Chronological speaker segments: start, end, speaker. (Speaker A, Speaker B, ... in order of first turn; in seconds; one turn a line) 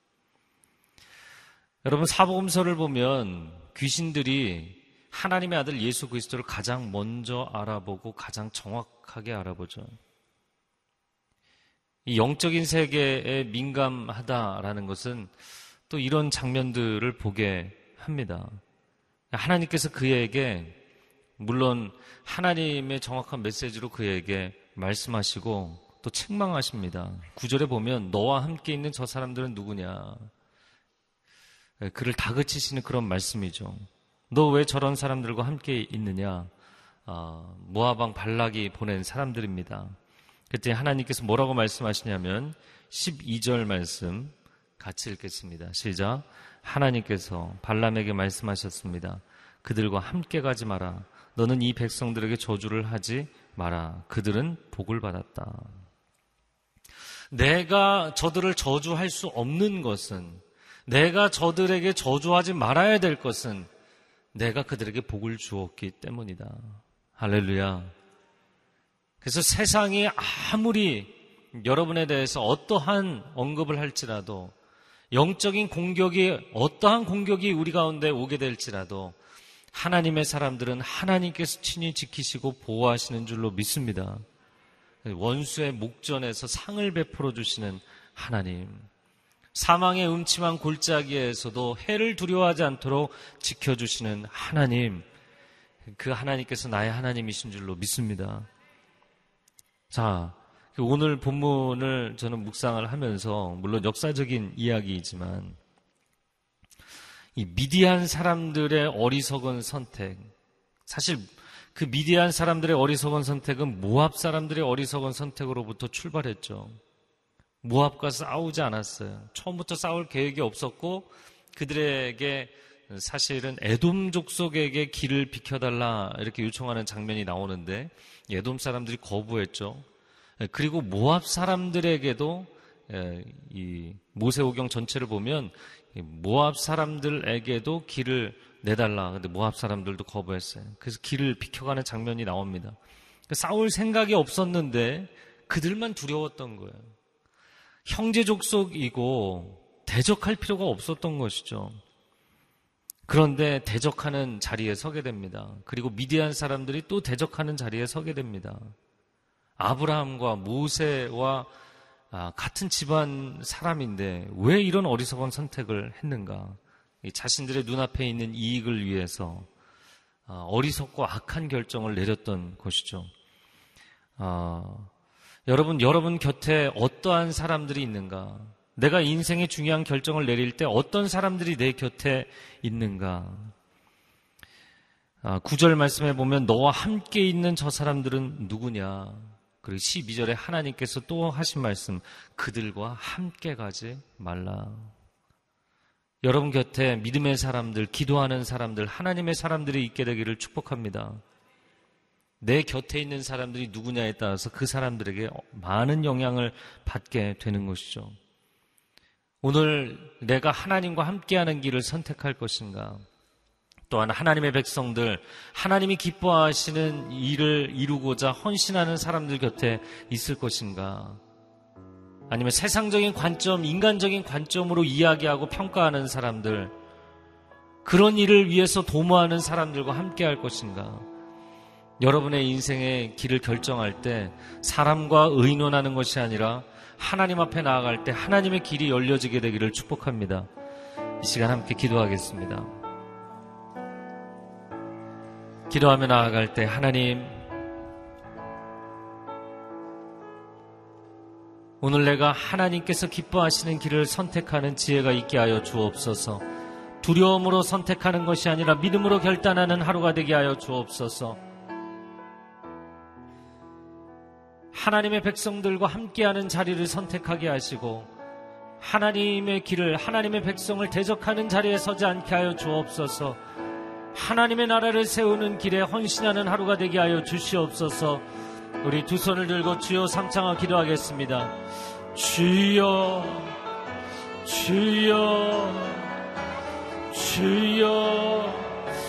Speaker A: 1.8-9.9
Speaker A: 12.1-15.3
Speaker A: 15.9-18.6
Speaker A: 19.3-20.8
Speaker A: 21.4-30.3
Speaker A: 31.8-36.5
Speaker A: 37.1-40.0
Speaker A: 40.5-55.8
Speaker A: 57.3-63.7
Speaker A: 64.3-67.9
Speaker A: 69.2-74.5
Speaker A: 75.1-79.2
Speaker A: 79.7-84.2
Speaker A: 85.0-88.9
Speaker A: 89.5-95.0
Speaker A: 95.9-98.5
Speaker A: 99.9-105.6
Speaker A: 107.4-110.3
Speaker A: 110.9-116.8
Speaker A: 117.6-129.8
Speaker A: 130.4-142.8
Speaker A: 143.3-146.9
Speaker A: 147.9-151.8
Speaker A: 153.1-158.7
Speaker A: 159.6-161.5
Speaker A: 162.1-169.5
Speaker A: 170.3-173.1
Speaker A: 174.2-174.9
Speaker A: 175.5-183.5
Speaker A: 185.2-194.9
Speaker A: 196.2-201.2
Speaker A: 202.4-208.2
Speaker A: 209.4-213.0
Speaker A: 213.9-221.2
Speaker A: 222.3-226.7
Speaker A: 227.8-231.1
Speaker A: 232.0-240.5
Speaker A: 241.2-242.7
Speaker A: 245.7-247.5
Speaker A: 251.8-256.4
Speaker A: 257.0-261.4
Speaker A: 264.7-268.1
Speaker A: 268.8-273.4
Speaker A: 274.1-278.2
Speaker A: 278.8-281.5
Speaker A: 282.1-283.6
Speaker A: 284.4-286.1
Speaker A: 287.1-288.8